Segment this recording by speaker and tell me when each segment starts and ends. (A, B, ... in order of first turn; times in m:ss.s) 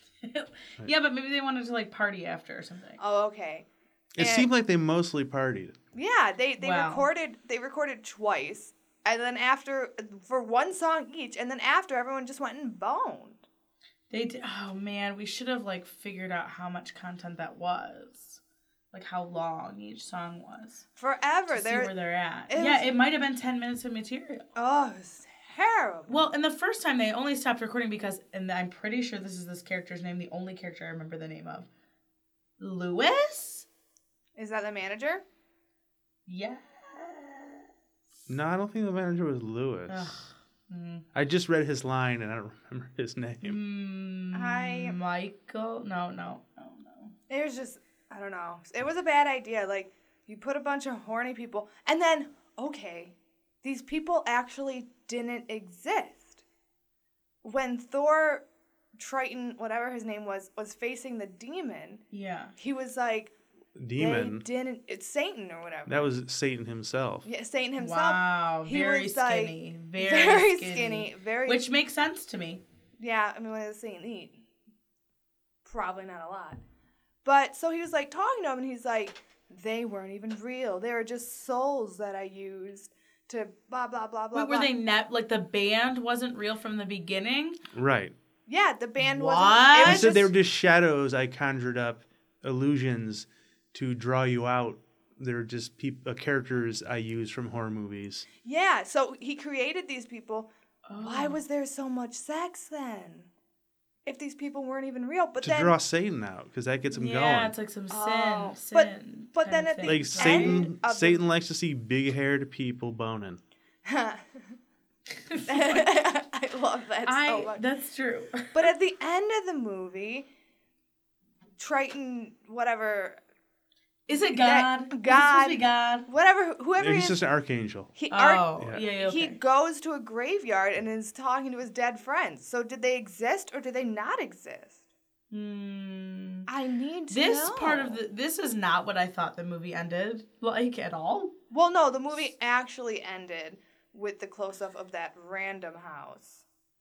0:00.2-0:03.0 A
0:03.0-0:04.5 B
0:04.2-0:05.8 C
0:05.9-0:13.4 B
0:06.6-0:07.0 A
0:14.1-0:18.4 A
0:18.9-0:20.8 A
0:21.0-0:21.9 B
0:21.5-0:24.4 A
0:22.5-0:22.9 B
0:24.6-0:26.2 B
0:26.1-0:31.7 A
0:32.6-0:33.7 A
0:34.4-0:35.2 B
0:36.3-0:37.7 A
0:38.3-0:40.2 C
0:39.9-0:41.0 A
0:41.1-0:43.6 C
0:43.4-0:47.1 A
0:44.3-0:45.0 B
0:47.3-0:56.4 B
0:57.4-0:58.4 B
0:59.0-1:02.0 B
1:02.1-1:02.5 A
1:02.6-1:03.3 B
1:03.8-1:04.4 C
1:04.0-1:05.9 B
1:05.9-1:07.3 C
1:07.2-1:11.6 B
1:07.8-1:12.6 A
1:13.0-1:14.4 B
1:15.6-1:16.6 B
1:17.2-1:24.7 B
1:24.3-1:27.6 A
1:27.7-1:28.2 C
1:28.5-1:30.3 B
1:29.0-1:30.2 A
1:29.8-1:38.2 C
1:38.4-1:43.3 B
1:40.8-1:41.4 A
1:44.0-1:45.7 B
1:45.4-1:47.5 C
1:46.9-1:50.6 A
1:47.9-1:51.2 B
1:49.8-1:53.4 C
1:53.8-1:54.5 B
1:55.3-1:55.9 A
1:55.5-1:57.6 B
1:57.0-1:58.7 A
1:58.5-2:00.3 B
2:01.6-2:03.2 B
2:04.1-2:06.1 A
2:04.1-2:07.2 B
2:06.8-2:07.9 C
2:07.9-2:14.8 B
2:08.1-2:09.4 A
2:08.6-2:08.8 C
2:15.3-2:16.5 A
2:16.5-2:18.0 B
2:17.1-2:21.3 A
2:21.5-2:26.4 B